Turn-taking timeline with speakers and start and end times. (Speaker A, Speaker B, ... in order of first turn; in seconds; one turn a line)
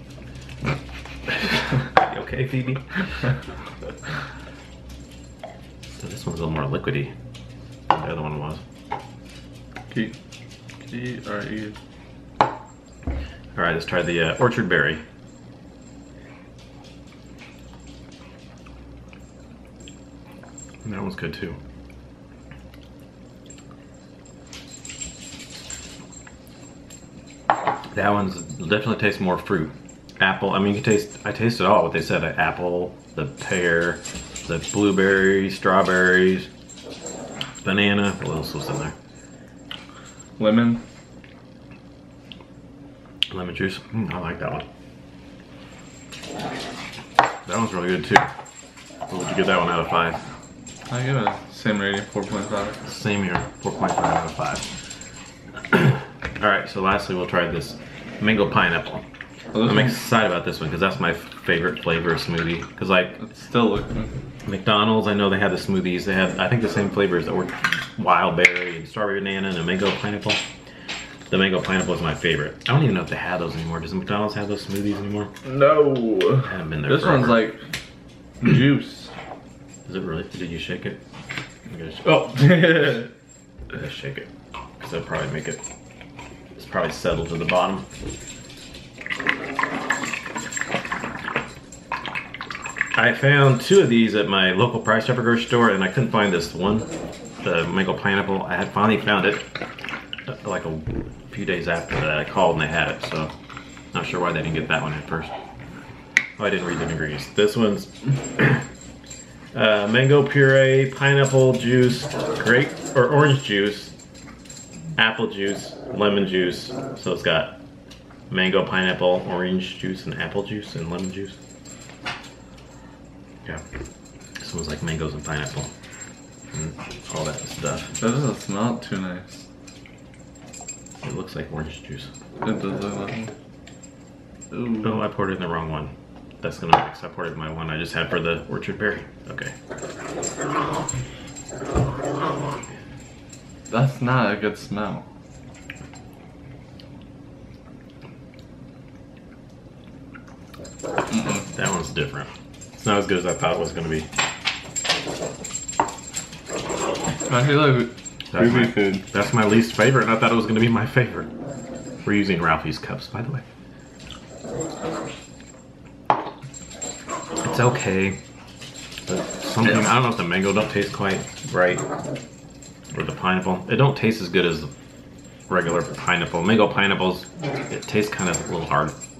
Speaker A: 1.4-3.0
Speaker A: 6.0-7.1
Speaker A: 7.9-8.6
Speaker B: 9.9-10.1
Speaker B: 10.9-11.8
Speaker A: 13.5-15.0
Speaker A: 20.8-21.6
Speaker A: 27.9-36.5
Speaker A: 37.6-38.9
Speaker B: 40.4-40.8
Speaker A: 43.3-44.6
Speaker A: 47.5-48.3
Speaker A: 49.1-50.2
Speaker B: 50.9-52.8
Speaker A: 52.8-54.6
Speaker A: 55.7-59.0
Speaker B: 59.5-60.0
Speaker A: 59.6-63.2
Speaker B: 63.2-64.1
Speaker A: 64.4-70.4
Speaker A: 71.3-75.3
Speaker B: 75.4-77.6
Speaker A: 76.4-77.5
Speaker B: 78.4-79.1
Speaker A: 79.8-81.0
Speaker A: 81.7-83.0
Speaker B: 82.0-83.1
Speaker A: 83.7-84.3
Speaker A: 84.8-85.6
Speaker A: 86.5-87.9
Speaker A: 92.9-96.9
Speaker A: 97.4-99.5
Speaker A: 100.3-103.3
Speaker A: 103.9-105.3
Speaker A: 106.4-108.6
Speaker A: 109.5-113.9
Speaker A: 115.0-117.6
Speaker A: 118.3-121.4
Speaker A: 124.4-125.7
Speaker A: 126.5-127.9
Speaker B: 127.9-129.4
Speaker A: 131.0-132.1
Speaker B: 132.4-133.3
Speaker B: 134.5-134.9
Speaker A: 134.8-139.5
Speaker B: 143.7-145.0
Speaker B: 151.1-151.4
Speaker A: 151.3-154.1
Speaker B: 157.2-159.0
Speaker A: 158.3-161.3
Speaker A: 162.0-163.4
Speaker A: 167.4-168.2
Speaker A: 169.1-171.8
Speaker A: 172.9-174.7
Speaker A: 175.5-178.9